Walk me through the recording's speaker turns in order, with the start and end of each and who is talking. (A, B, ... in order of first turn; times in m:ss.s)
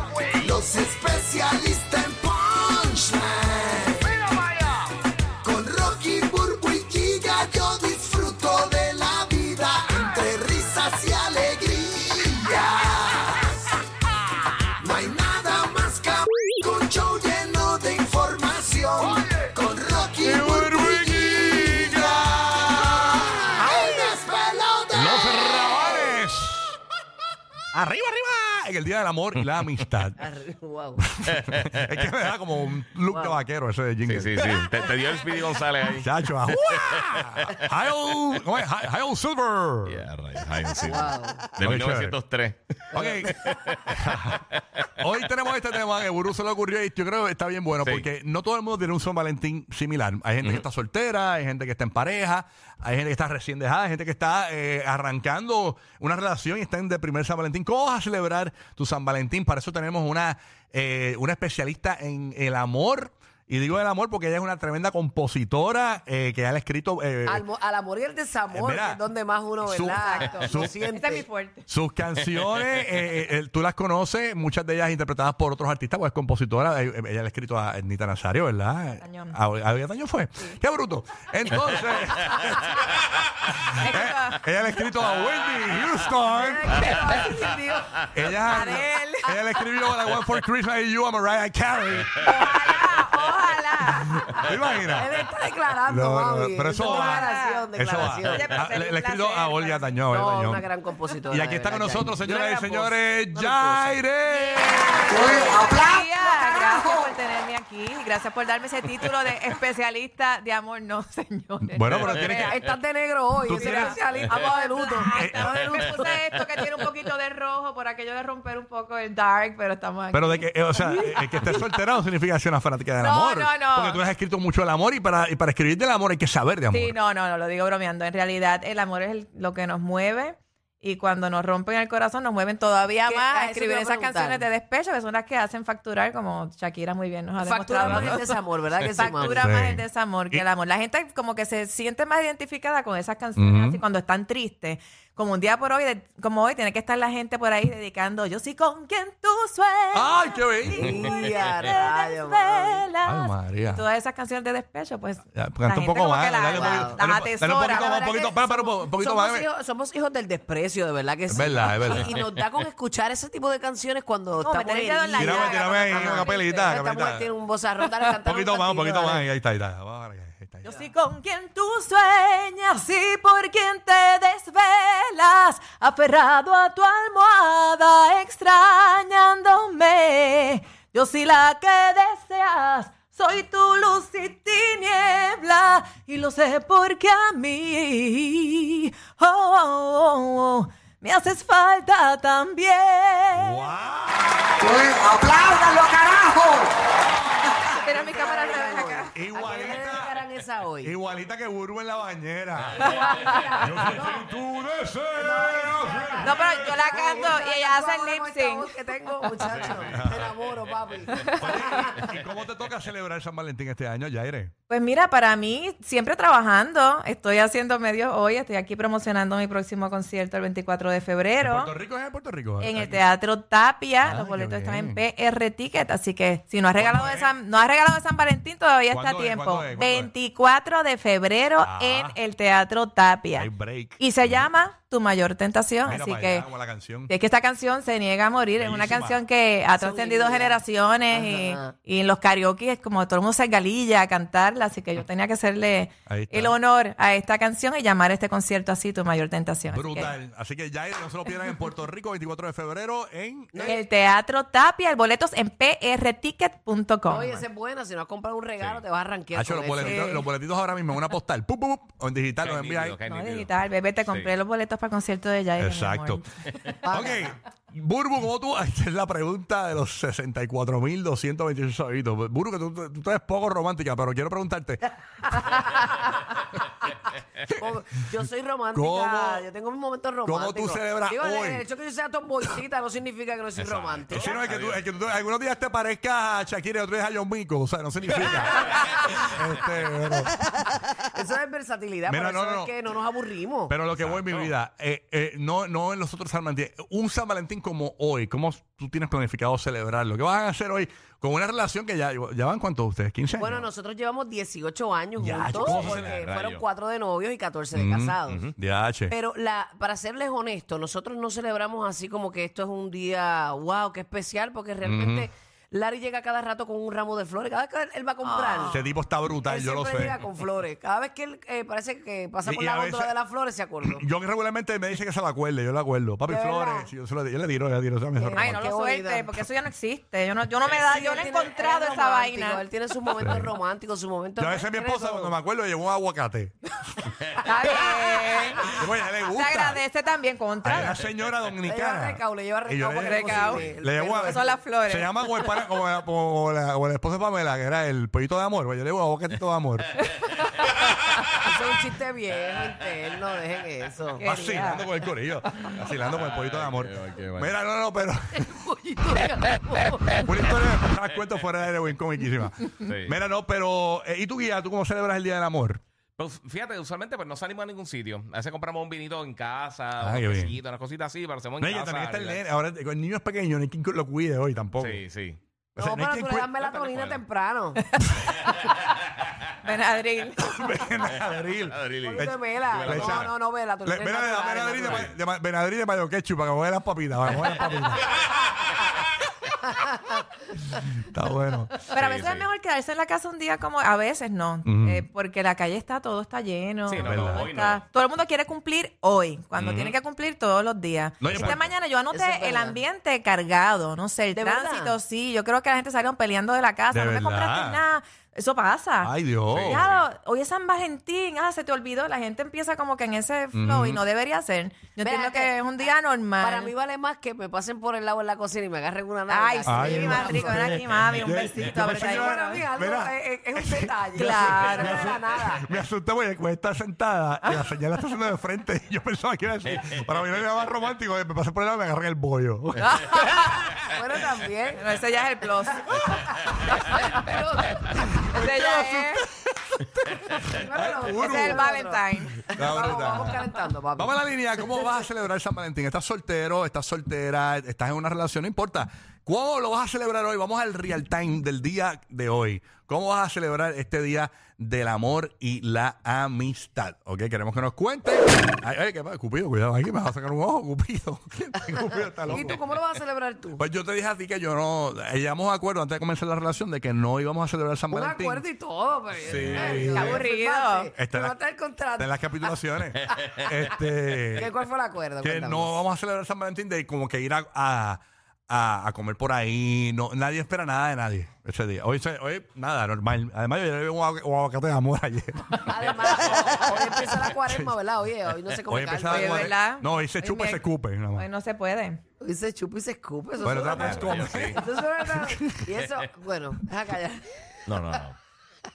0:00.3-0:04.1 A
0:05.4-0:13.6 A
0:14.8-0:25.6 A
0:20.2-0:23.8 B
0:23.6-0:24.2 C
0:24.9-0:26.8 B
0:27.7-0:30.2 B
0:30.2-0:31.0 C
0:31.0-0:34.7 B
0:31.3-0:32.0 D
0:33.1-0:33.4 C
0:34.0-0:37.0 D
0:36.0-0:40.0 B
0:39.8-0:42.6 D
0:40.8-0:41.5 C
0:41.6-0:42.2 B
0:42.9-0:44.5 B
0:42.9-0:43.2 C
0:43.2-0:44.8 D
0:45.0-1:07.4 B
0:47.8-0:48.1 D
1:07.2-1:11.3 C
1:08.5-1:09.0 B
1:09.6-1:10.8 B
1:09.9-1:11.6 E
1:11.7-1:26.8 B
1:19.0-1:19.4 E
1:23.8-1:24.4 E
1:26.3-1:28.4 C
1:28.1-1:32.1 B
1:28.5-1:29.6 E
1:32.2-1:34.4 E
1:34.3-1:35.1 B
1:35.0-1:38.6 C
1:35.8-1:40.6 B
1:36.8-1:37.7 E
1:38.2-1:40.0 E
1:40.1-1:44.0 C
1:41.3-1:45.0 B
1:44.3-1:52.6 E
1:45.1-1:45.6 C
1:51.6-1:52.6 B
1:51.9-1:52.2 D
1:52.5-1:55.7 C
1:53.4-1:54.3 B
1:53.5-2:00.5 E
1:55.1-1:56.1 B
2:00.1-2:07.0 B
2:00.8-2:01.5 C
2:03.0-2:04.0 E
2:06.7-2:18.4 E
2:13.0-2:14.4 C
2:17.4-2:19.4 C
2:18.9-2:38.1 E
2:19.2-2:20.4 B
2:23.4-2:23.8 B
2:29.9-2:31.2 B
2:30.7-2:32.8 C
2:33.0-2:33.8 B
2:35.3-2:39.4 B
2:36.5-2:37.0 C
2:37.7-2:49.2 C
2:41.3-2:42.1 B
2:44.4-2:46.7 E
2:45.2-2:47.3 B
2:48.2-2:50.8 B
2:50.6-3:13.7 E
3:13.3-3:14.8 B
3:15.6-3:16.4 C
3:17.7-3:19.1 E
3:17.7-3:20.9 C
3:19.1-3:20.2 B
3:20.8-3:22.9 B
3:22.8-3:24.2 C
3:23.1-3:23.4 E
3:23.6-3:27.3 B
3:25.1-3:32.1 C
3:26.2-3:28.8 E
3:29.5-3:29.9 D
3:29.6-3:30.3 B
3:31.1-3:31.6 E
3:31.2-3:34.5 B
3:34.7-3:41.7 E
3:41.4-3:43.0 B
3:42.6-3:56.4 E
3:44.0-3:45.0 B
3:46.7-3:47.3 B
3:48.9-3:50.1 B
3:51.6-3:52.2 B
3:53.3-3:54.5 B
3:55.8-3:57.1 B
3:57.1-4:10.1 E
3:58.6-3:59.2 B
3:59.7-4:01.7 C
4:06.1-4:06.6 B
4:09.7-4:13.8 B
4:13.5-4:13.8 C
4:13.6-4:17.4 E
4:17.1-4:20.2 C
4:19.3-4:23.0 B
4:19.8-4:20.2 E
4:22.4-4:23.5 D
4:23.0-4:26.2 E
4:24.1-4:24.3 D
4:25.6-4:26.2 B
4:26.8-4:34.9 B
4:26.8-4:27.2 C
4:35.3-4:36.1 C
4:37.6-4:44.4 C
4:38.7-4:39.5 B
4:40.2-4:41.6 B
4:43.6-4:44.8 D
4:44.1-4:50.3 B
4:50.7-4:53.8 C
4:52.1-4:52.7 B
4:53.7-5:03.6 B
4:54.0-4:54.5 D
5:03.4-5:08.4 C
5:05.2-5:06.1 B
5:05.6-5:06.6 D
5:07.7-5:09.1 B
5:08.3-5:08.5 D
5:09.1-5:18.8 C
5:14.8-5:15.3 B
5:18.2-5:18.8 E
5:18.6-5:20.2 B
5:19.4-5:24.0 C
5:22.4-5:23.1 B
5:23.8-5:28.6 B
5:26.3-5:26.9 C
5:28.2-5:29.4 C
5:28.3-5:32.6 E
5:30.8-5:35.3 C
5:33.1-5:33.5 B
5:34.4-5:36.7 B
5:37.4-5:41.0 E
5:38.8-5:39.8 B
5:40.6-5:50.0 B
5:41.6-5:44.6 C
5:42.9-5:43.6 E
5:44.2-5:45.1 E
5:51.4-5:54.2 C
5:54.2-5:54.8 E
5:54.2-5:58.5 B
5:56.2-5:57.5 D
5:58.4-6:00.5 C
6:00.2-6:05.8 B
6:02.8-6:03.2 D
6:06.2-6:12.4 D
6:10.0-6:10.6 B
6:11.6-6:15.0 B
6:14.8-6:15.4 D
6:15.8-6:16.8 B
6:15.8-6:17.8 C
6:16.8-6:17.2 D
6:19.6-6:20.5 E
6:20.4-6:23.3 B
6:21.1-6:23.3 D
6:22.0-6:25.1 C
6:23.8-6:28.1 B
6:24.8-6:25.2 D
6:31.1-6:31.7 B
6:31.9-6:32.5 D
6:31.9-6:49.1 E
6:34.6-6:35.0 B
6:36.9-6:37.8 D
6:37.0-6:37.4 B
6:39.6-6:39.9 D
6:41.2-6:41.6 B
6:41.3-6:41.6 D
6:42.1-6:42.8 C
6:44.3-6:44.9 C
6:46.9-6:47.8 B
6:49.0-6:49.8 B
6:49.5-6:50.0 D
6:49.6-6:56.7 E
6:53.5-6:54.0 B
6:55.0-6:55.5 C
6:56.4-7:00.8 C
6:59.3-7:02.6 E
6:59.6-7:13.5 B
7:01.7-7:05.6 C
7:04.1-7:05.1 E
7:12.8-7:13.7 E
7:13.8-7:14.8 C
7:14.7-7:16.0 E
7:16.8-7:17.1 E
7:16.8-7:18.0 C
7:18.0-7:21.6 B
7:18.3-7:19.2 E
7:20.5-7:24.1 C
7:21.0-7:23.1 E
7:22.4-7:23.4 B
7:24.0-7:42.6 B
7:42.2-7:43.6 C
7:43.6-7:48.4 B
7:47.9-7:52.5 C
7:49.2-7:50.2 B
7:49.5-7:50.9 E
7:50.9-7:51.4 B
7:52.0-7:54.5 B
7:53.1-7:53.4 C
7:54.4-7:55.7 C
7:55.2-8:07.8 B
8:05.7-8:09.5 C
8:08.7-8:11.3 B
8:09.0-8:12.0 E
8:12.2-8:17.3 C
8:13.4-8:15.7 B
8:13.8-8:14.6 D
8:17.7-8:18.2 D